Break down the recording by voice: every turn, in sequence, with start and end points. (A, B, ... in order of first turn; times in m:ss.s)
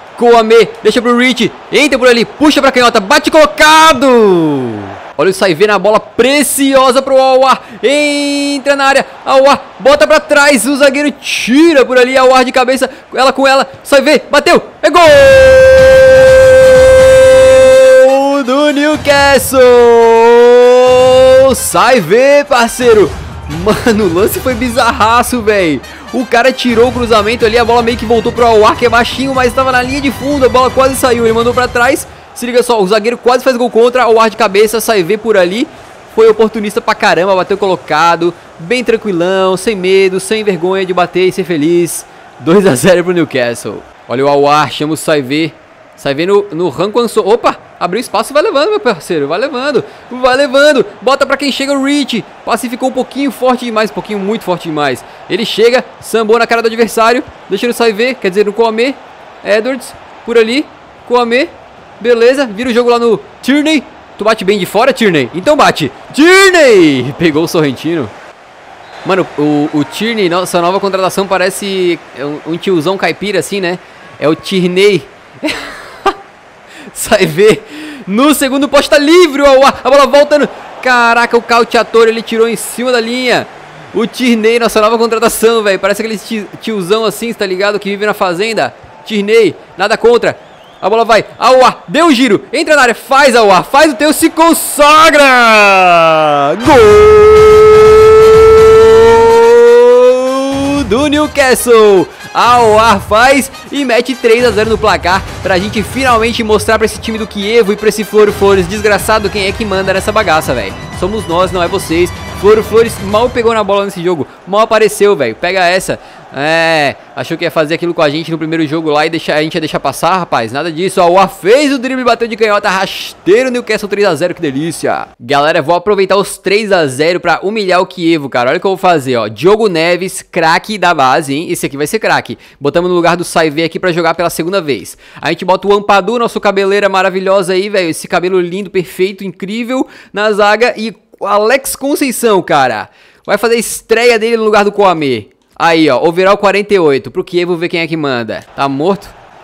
0:00.2-1:08.1 A
1:09.0-1:16.2 A
1:16.9-2:29.1 A